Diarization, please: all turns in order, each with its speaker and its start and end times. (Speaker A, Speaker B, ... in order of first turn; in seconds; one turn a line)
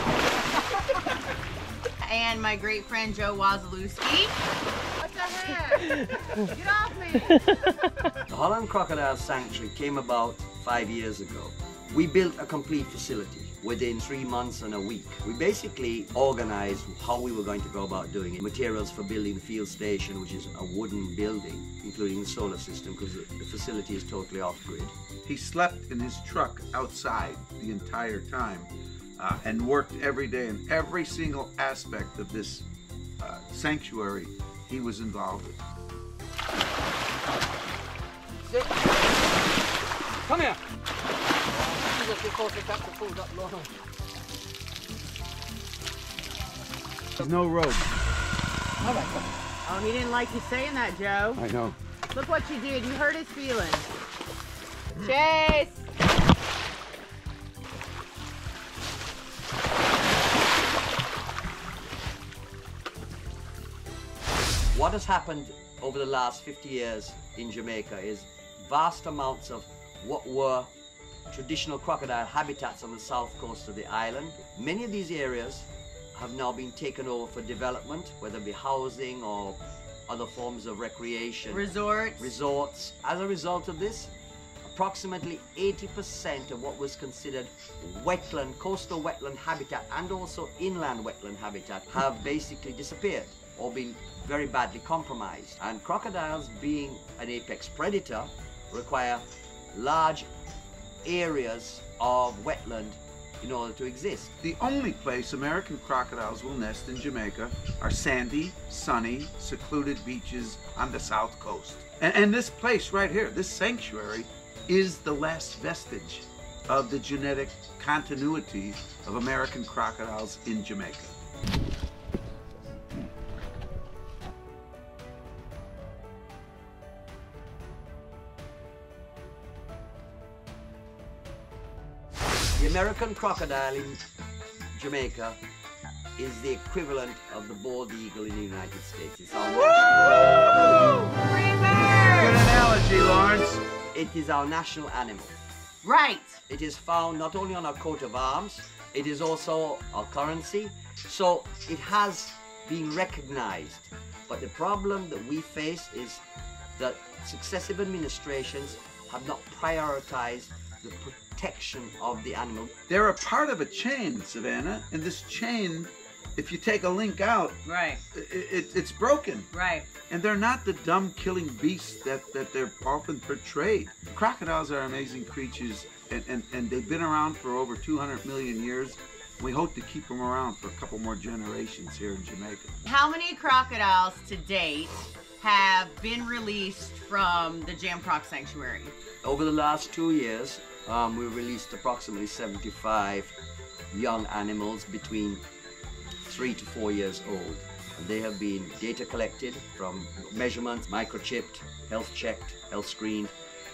Speaker A: 2.0-4.4
Speaker A: 5.0-7.4
Speaker B: 8.3-24.9
Speaker C: 25.2-32.7
Speaker C: 33.2-35.6
Speaker B: 38.5-38.8
Speaker B: 40.2-40.6
Speaker B: 41.6-43.7
Speaker C: 47.2-47.9
Speaker B: 48.9-49.2
Speaker A: 49.6-51.4
Speaker C: 51.4-51.8
Speaker A: 52.1-53.9
Speaker A: 55.0-55.9
Speaker B: 64.7-70.7
Speaker B: 71.3-84.1
Speaker A: 81.5-82.3
Speaker B: 84.6-100.3
Speaker B: 101.0-104.3
Speaker C: 104.4-121.1
Speaker B: 132.6-134.0
Speaker B: 134.7-135.4
Speaker B: 136.2-140.6
Speaker A: 139.6-142.4
Speaker C: 142.2-143.6
Speaker B: 143.9-145.3
Speaker A: 145.8-146.4
Speaker B: 146.5-156.2
Speaker B: 156.8-162.7
Speaker C: 162.9-167.6
Speaker A: 167.7-168.0
Speaker C: 168.1-169.5
Speaker A: 169.5-169.9
Speaker C: 170.1-182.8
Speaker A: 182.8-188.9
Speaker B: 189.2-193.3
Speaker B: 193.9-195.4
Speaker B: 196.3-203.3